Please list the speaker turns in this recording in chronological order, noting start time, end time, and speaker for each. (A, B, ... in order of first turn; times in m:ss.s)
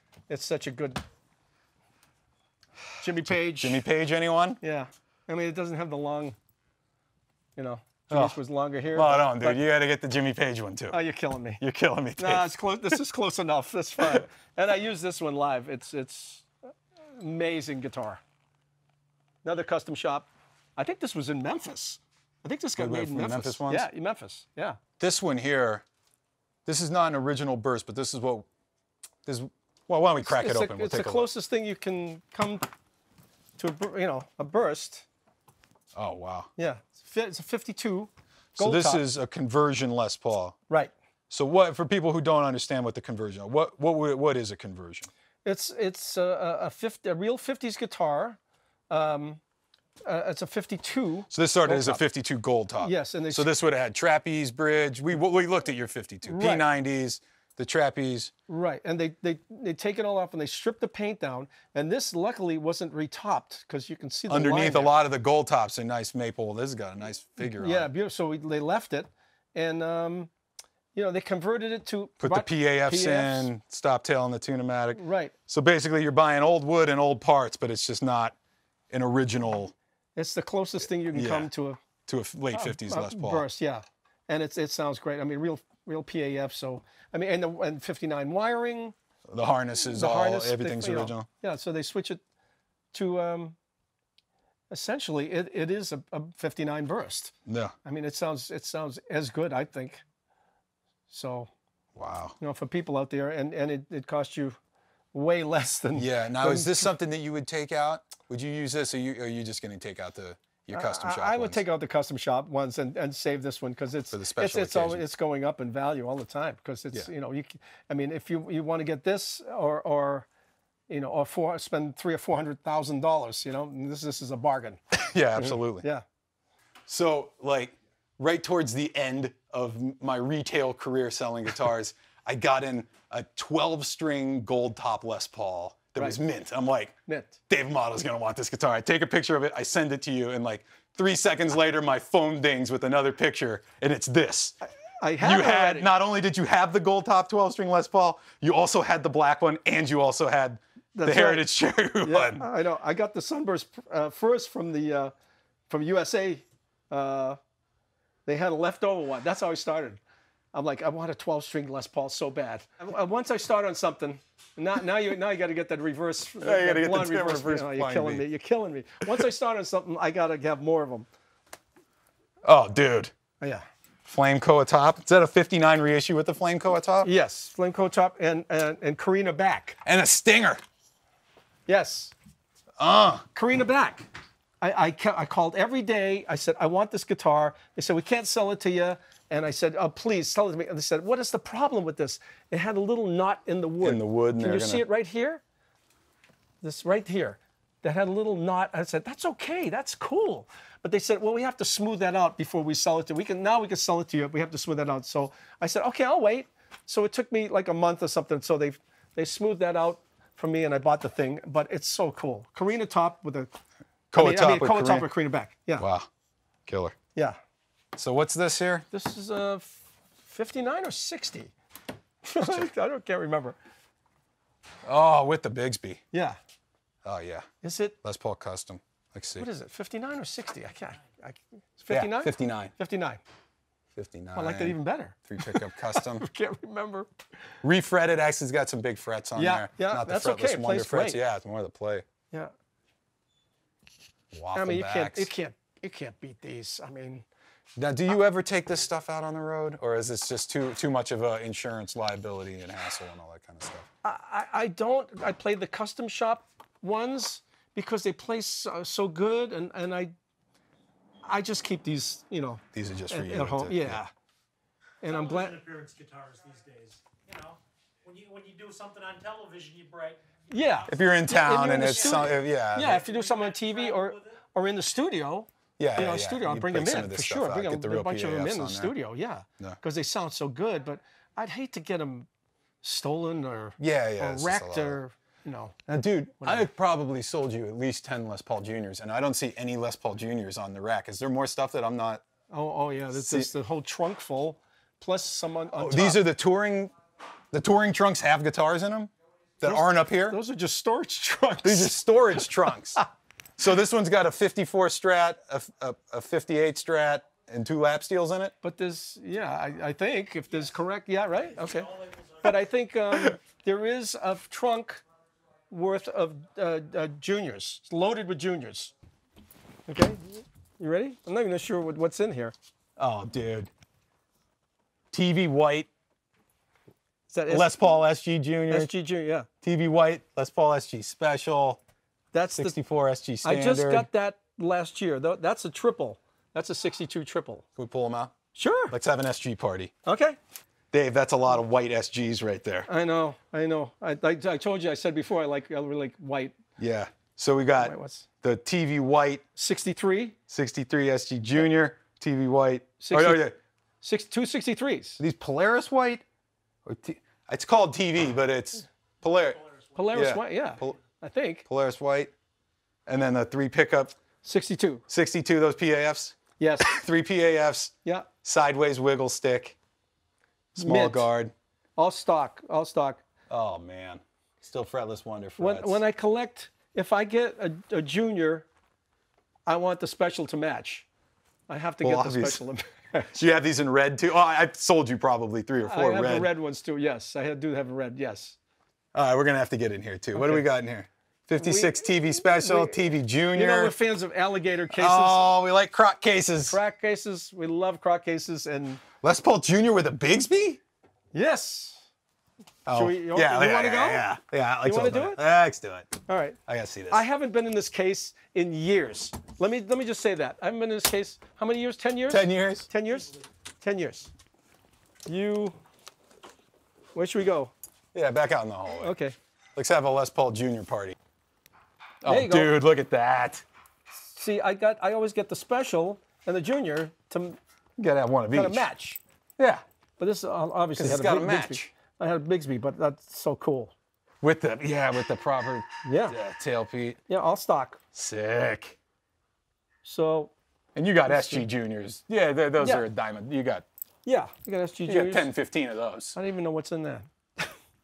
0:00.3-0:01.0 A
0:03.0-0:03.8 A
0:03.3-0:04.6 B
0:04.6-0:06.4 A
0:07.6-0:09.6 A
0:08.1-0:08.4 B
0:08.9-0:11.0 B
0:10.9-0:11.6 A
0:11.6-0:12.5 B
0:12.2-0:16.5 A
0:17.2-0:18.2 A
0:19.4-0:24.8 A
0:22.8-0:23.9 B
0:25.0-0:25.8 B
0:26.6-0:28.5 B
0:29.2-0:31.3 B
0:30.2-0:32.7 A
0:33.6-0:35.1 A
0:35.9-0:36.5 B
0:36.6-0:39.0 A
0:38.6-0:40.6 B
0:41.3-0:45.1 B
0:45.4-0:48.4 A
0:48.9-0:49.4 A
0:50.0-0:52.0 A
0:51.3-0:58.3 B
0:52.8-0:53.5 A
0:56.2-0:56.6 A
0:58.5-1:04.9 A
1:04.3-1:07.9 B
1:07.4-1:10.3 A
1:10.9-1:13.5 A
1:12.2-1:18.4 B
1:14.9-1:15.3 A
1:18.9-1:19.7 B
1:20.2-1:21.8 A
1:21.0-1:21.5 B
1:22.0-1:23.4 B
1:22.5-1:28.9 A
1:29.3-1:31.3 B
1:29.9-1:32.2 A
1:32.9-1:33.6 A
1:34.7-1:37.3 A
1:37.4-1:37.7 B
1:37.8-1:40.0 A
1:41.1-1:41.5 A
1:41.9-1:42.4 B
1:42.4-1:44.6 A
1:45.1-1:46.9 A
1:45.9-1:51.6 B
1:50.7-2:00.3 A
1:54.1-1:55.0 B
2:00.9-2:04.8 A
2:04.9-2:05.8 B
2:05.4-2:06.0 A
2:06.9-2:16.9 B
2:17.1-2:17.4 A
2:17.5-2:24.5 B
2:25.0-2:25.9 A
2:25.2-2:32.4 B
2:30.9-2:31.4 A
2:32.0-2:35.1 A
2:35.7-2:37.4 A
2:38.2-2:40.0 A
2:40.5-2:51.1 A
2:46.4-2:48.2 B
2:52.4-2:53.1 B
2:54.0-2:57.1 B
2:57.0-2:59.8 A
2:59.8-3:00.6 B
3:01.7-3:02.1 A
3:02.8-3:03.2 B
3:03.3-3:04.1 A
3:04.6-3:15.4 A
3:13.8-3:14.8 B
3:16.6-3:33.5 A
3:34.1-3:35.1 B
3:34.1-3:35.9 A
3:35.8-3:36.1 B
3:36.7-3:37.0 B
3:37.9-3:38.8 B
3:38.9-3:41.5 A
3:42.2-3:43.6 A
3:44.8-3:46.0 B
3:46.1-3:46.4 A
3:47.0-3:47.4 B
3:47.6-3:47.9 A
3:48.0-3:49.5 B
3:49.4-3:53.2 A
3:51.9-3:52.7 B
3:53.9-3:56.3 B
3:54.3-3:57.1 A
3:57.6-4:02.0 B
3:59.4-4:01.2 A
4:04.3-4:05.3 B
4:04.5-4:07.2 A
4:07.8-4:13.9 B
4:14.0-4:20.1 A
4:21.2-4:24.1 A
4:22.7-4:24.0 B
4:25.0-4:25.6 A
4:25.1-4:30.2 C
4:30.5-4:42.3 A
4:30.9-4:33.0 B
4:31.8-4:34.2 C
4:35.8-4:38.9 B
4:42.8-4:45.8 A
4:43.8-4:45.0 B
4:45.9-4:52.2 B
4:46.4-4:46.7 A
4:52.5-4:56.2 A
4:53.1-4:53.5 B
4:55.8-4:56.9 B
4:57.5-5:00.4 B
4:59.6-5:02.0 A
5:01.6-5:03.0 B
5:03.6-5:08.5 B
5:08.6-5:15.0 A
5:15.7-5:18.9 A
5:19.9-5:22.5 A
5:23.0-5:23.7 B
5:25.1-5:25.9 B
5:27.3-5:27.8 A
5:27.5-5:28.9 B
5:28.7-5:29.5 A
5:29.6-5:31.8 B
5:32.3-5:32.8 A
5:32.5-5:34.1 B
5:33.4-5:37.6 A
5:37.8-5:38.3 B
5:38.5-5:38.9 A
5:38.9-5:39.9 B
5:40.0-5:40.4 A
5:40.9-5:42.9 B
5:42.9-5:46.5 A
5:46.8-5:49.4 B
5:47.8-5:48.3 A
5:49.6-5:50.4 A
5:50.5-5:53.5 B
5:53.0-5:53.5 A
5:54.0-5:55.2 A
5:55.2-5:56.2 B
5:56.8-5:59.6 B
5:59.9-6:01.6 A
6:00.1-6:01.0 B
6:01.7-6:02.3 B
6:03.0-6:04.1 B
6:04.4-6:05.0 A
6:05.1-6:07.9 B
6:06.6-6:06.9 A
6:08.4-6:09.8 B
6:10.7-6:11.5 B
6:10.8-6:11.3 A
6:12.0-6:13.2 A
6:13.5-6:16.0 B
6:15.6-6:18.7 A
6:19.7-6:21.1 A
6:21.7-6:23.4 A
6:22.0-6:22.6 B
6:23.3-6:26.5 B
6:25.9-6:28.6 A
6:29.1-6:33.9 B
6:30.3-6:30.6 A
6:31.6-6:33.0 A
6:33.5-6:35.5 A
6:34.9-6:36.8 B
6:36.7-6:39.0 A
6:39.2-6:40.8 B
6:41.3-6:42.1 A
6:42.8-6:46.1 B
6:42.9-6:44.2 A
6:44.8-6:45.4 A
6:46.3-6:46.6 A
6:46.7-6:47.2 B
6:47.1-6:54.3 A
6:52.3-6:52.9 B
6:55.2-6:55.8 A
6:57.1-6:57.7 A
6:58.1-6:59.1 B
6:59.0-6:59.3 A
6:59.7-7:01.2 B
7:02.2-7:03.6 B
7:02.3-7:02.7 A
7:04.3-7:07.6 A
7:08.0-7:08.9 B
7:08.5-7:09.2 A
7:09.6-7:09.8 B
7:10.2-7:13.9 A
7:11.0-7:11.9 B
7:14.4-7:17.2 B
7:16.0-7:16.4 A
7:17.3-7:18.0 A
7:18.1-7:19.0 B
7:20.0-7:20.5 A
7:20.9-7:23.8 B
7:21.3-7:21.7 A
7:22.8-7:23.0 A
7:24.2-7:25.5 A
7:25.1-7:26.4 B
7:26.4-7:27.7 A